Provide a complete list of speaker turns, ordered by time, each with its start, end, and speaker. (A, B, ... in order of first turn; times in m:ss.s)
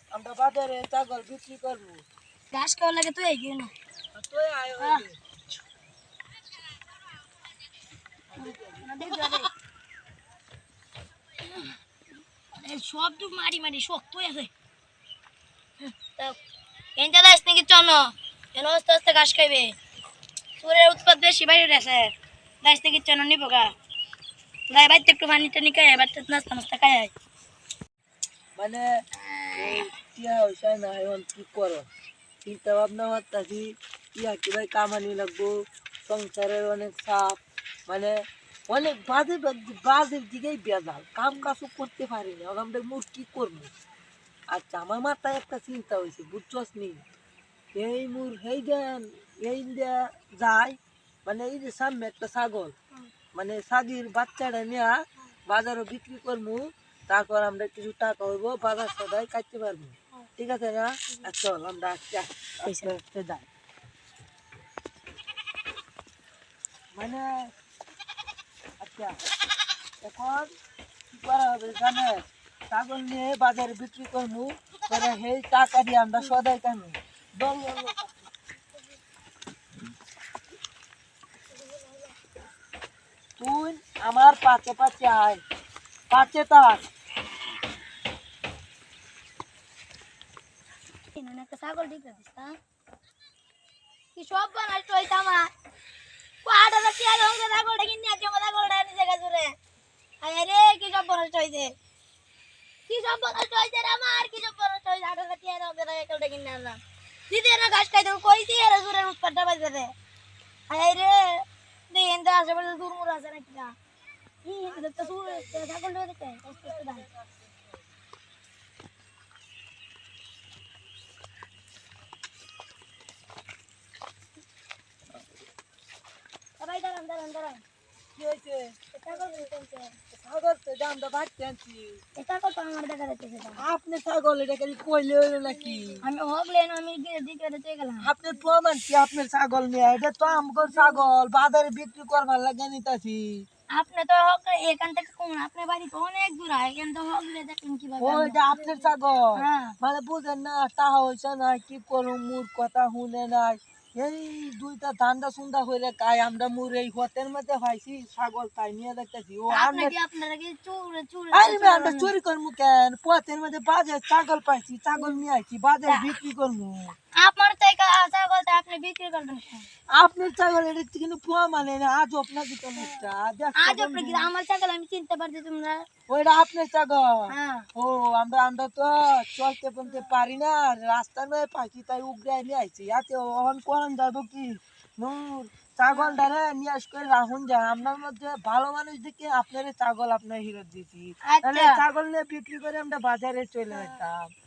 0:00.1-0:02.0 A
0:02.5-0:03.7 B
0:04.2-0:05.2 A
0:08.3-0:09.5 A
0:08.4-0:09.5 B
0:11.4-0:11.7 B
0:12.5-0:14.5 B
0:15.8-0:16.4 B
0:17.0-0:19.8 B
0:20.6-0:23.7 B
0:24.7-0:27.1 B
0:28.6-0:28.9 A
0:29.5-0:31.9 A
0:32.4-0:38.2 A
0:38.7-0:43.7 A
0:44.5-0:47.0 A
0:47.8-0:52.7 A
0:53.3-1:03.5 A
1:02.6-1:03.0 B
1:06.9-1:07.5 A
1:08.8-1:09.2 A
1:10.0-1:10.5 A
1:11.1-1:18.3 A
1:21.7-1:22.0 B
1:23.4-1:25.4 A
1:26.1-1:26.8 A
1:31.2-1:32.6 B
1:34.2-1:35.5 B
1:36.4-1:39.6 B
1:40.2-1:41.8 B
1:42.9-1:49.9 B
1:50.7-1:53.7 B
1:54.4-1:57.1 B
1:54.6-1:55.7 A
1:56.4-1:57.8 A
2:06.6-2:07.6 B
2:08.2-2:08.8 A
2:08.9-2:10.0 B
2:10.1-2:12.0 A
2:12.2-2:13.6 B
2:13.6-2:16.0 A
2:16.0-2:18.1 B
2:18.0-2:23.4 A
2:20.4-2:21.0 B
2:23.8-2:29.8 B
2:28.0-2:40.0 A
2:39.5-2:42.1 B
2:41.3-2:47.0 A
2:47.2-2:49.7 B
2:50.0-2:54.3 A
2:53.6-2:55.8 B
2:56.1-3:14.3 A
2:57.3-2:57.7 B
3:05.9-3:06.2 B
3:11.3-3:11.8 B
3:13.7-3:14.0 B